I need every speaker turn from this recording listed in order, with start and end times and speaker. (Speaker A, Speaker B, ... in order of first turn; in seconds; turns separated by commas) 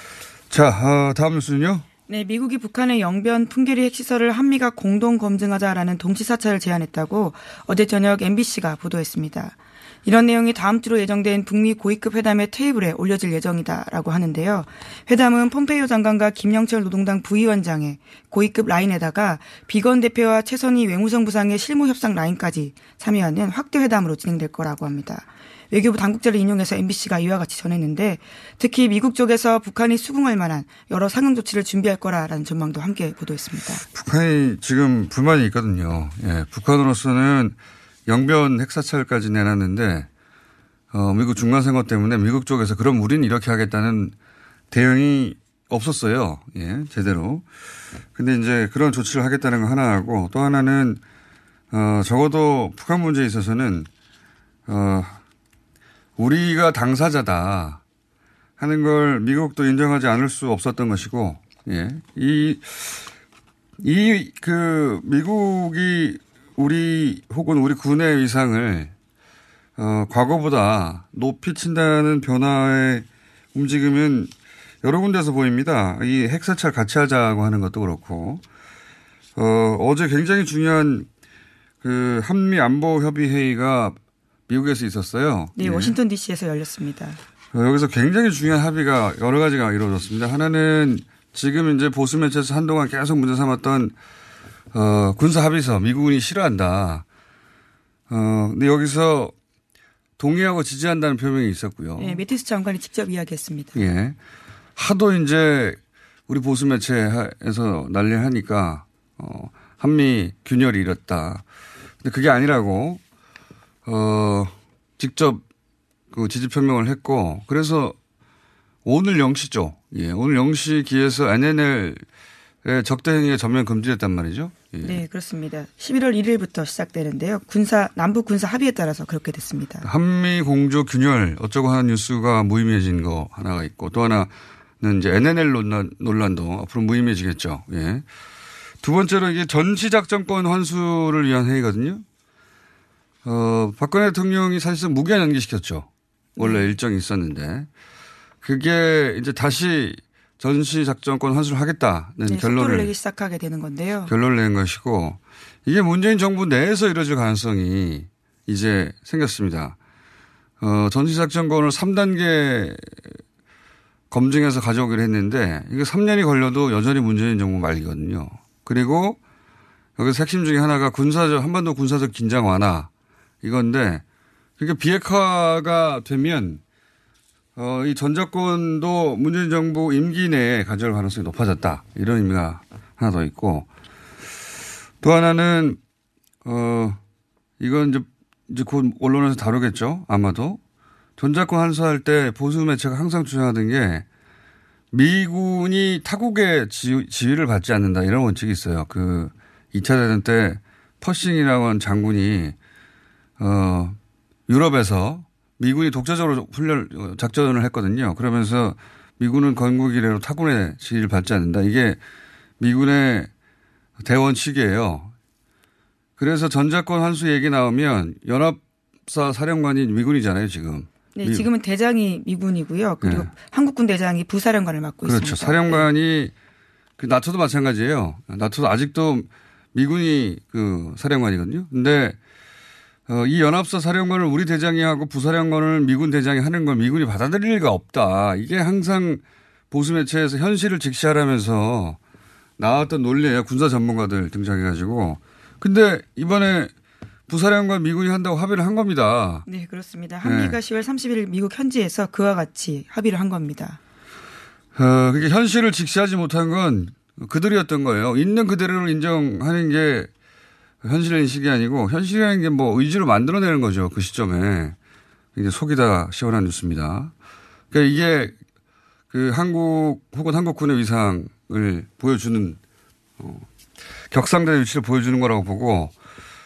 Speaker A: 0.5-1.9, Speaker B: 2.1-33.9, Speaker A: 33.9-40.1, Speaker A: 40.9-44.1, Speaker A: 44.7-47.5, Speaker A: 48.1-51.0, Speaker A: 51.7-53.9, Speaker A: 54.7-55.2, Speaker A: 56.2-57.8, Speaker A: 58.6-63.1, Speaker A: 63.8-68.9, Speaker A: 69.8-74.3, Speaker A: 74.8-78.4, Speaker A: 79.4-81.1, Speaker A: 81.8-84.0, Speaker A: 84.5-85.9, Speaker B: 85.6-87.2, Speaker A: 87.5-94.0, Speaker A: 94.7-97.0, Speaker A: 98.1-99.3, Speaker A: 100.2-102.2, Speaker B: 102.0-103.8, Speaker A: 103.8-104.2, Speaker A: 104.8-111.4, Speaker A: 112.0-113.0, Speaker A: 113.8-115.4, Speaker A: 116.1-118.0, Speaker A: 118.8-122.0, Speaker A: 122.6-125.0, Speaker B: 124.8-129.9, Speaker A: 129.8-138.1, Speaker A: 138.8-142.0, Speaker A: 143.2-147.7, Speaker B: 146.4-146.7, Speaker A: 148.4-152.9, Speaker B: 152.3-154.1, Speaker A: 154.1-159.8, Speaker A: 160.6-163.1, Speaker A: 164.1-169.2, Speaker A: 170.0-172.9, Speaker A: 173.4-174.0, Speaker A: 174.6-176.6, Speaker A: 177.6-183.7, Speaker A: 185.0-185.8, Speaker A: 186.4-187.0, Speaker A: 187.6-190.6, Speaker A: 191.2-194.1, Speaker A: 194.9-202.6, Speaker A: 203.4-212.0, Speaker A: 212.6-213.3, Speaker A: 214.0-215.1, Speaker A: 216.2-221.5, Speaker B: 221.2-225.9, Speaker A: 223.0-223.3, Speaker A: 225.1-226.3, Speaker A: 227.0-232.2, Speaker A: 233.1-242.0, Speaker A: 242.6-246.7, Speaker A: 247.3-249.4, Speaker B: 249.5-253.8, Speaker A: 250.2-250.6, Speaker A: 254.8-260.1, Speaker A: 260.8-264.8, Speaker A: 265.4-267.1, Speaker A: 267.7-268.4, Speaker A: 269.1-272.6, Speaker A: 273.2-273.5, Speaker A: 274.1-275.9